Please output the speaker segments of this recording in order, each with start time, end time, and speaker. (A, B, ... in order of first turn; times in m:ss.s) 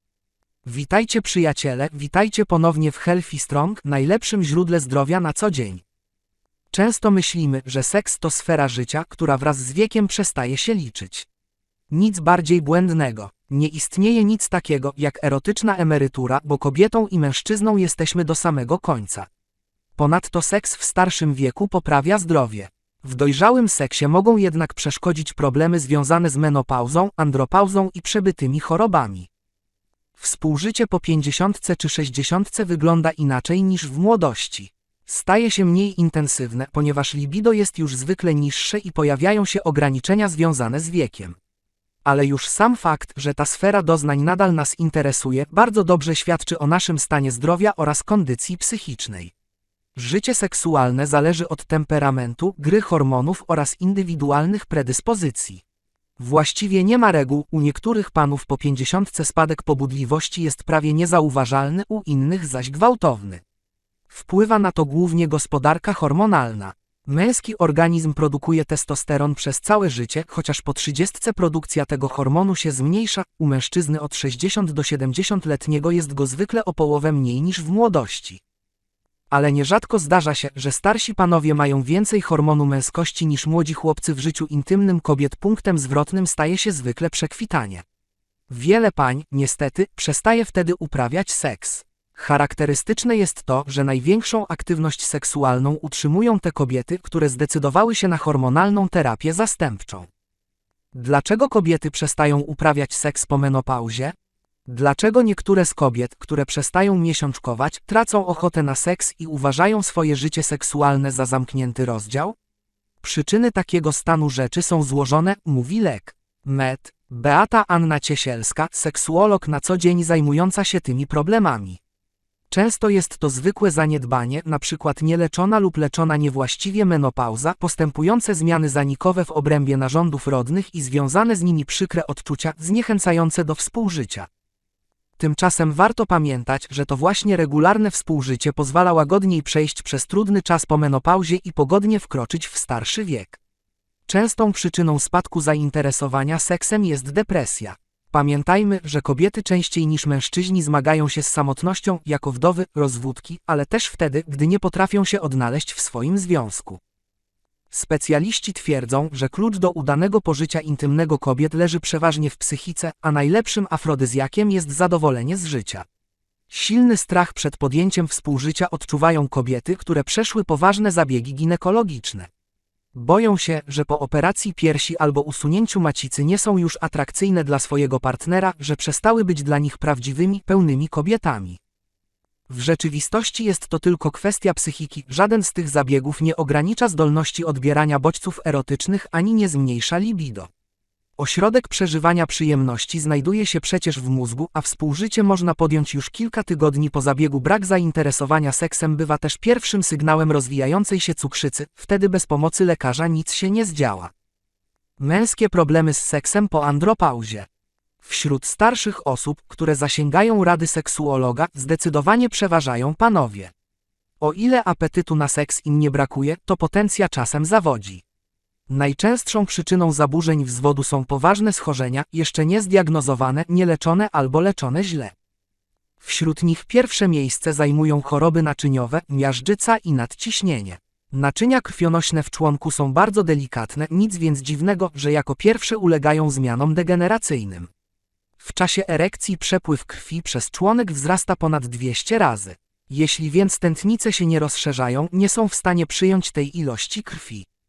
0:00.6-0:05.8 A
0:06.7-0:11.3 A
0:11.9-0:19.3 A
0:20.0-0:29.3 A
0:30.2-0:41.4 A
0:42.0-0:49.3 A
0:50.0-0:55.6 A
0:56.2-1:03.4 A
1:04.1-1:18.4 A
1:19.3-1:27.8 A
1:28.5-1:40.1 A
1:40.9-1:44.1 A
1:44.7-1:52.4 A
1:53.0-2:01.8 A
2:02.5-2:14.3 A
2:15.2-2:23.4 A
2:24.1-2:36.8 A
2:37.7-2:45.8 A
2:46.5-2:52.3 A
2:52.9-3:01.6 A
3:02.5-3:10.5 A
3:11.2-3:24.1 A
3:25.0-3:27.5 A
3:28.0-3:33.5 A
3:34.2-3:38.0 A
3:38.7-3:45.1 A
3:46.0-3:57.7 A
3:58.4-4:07.4 A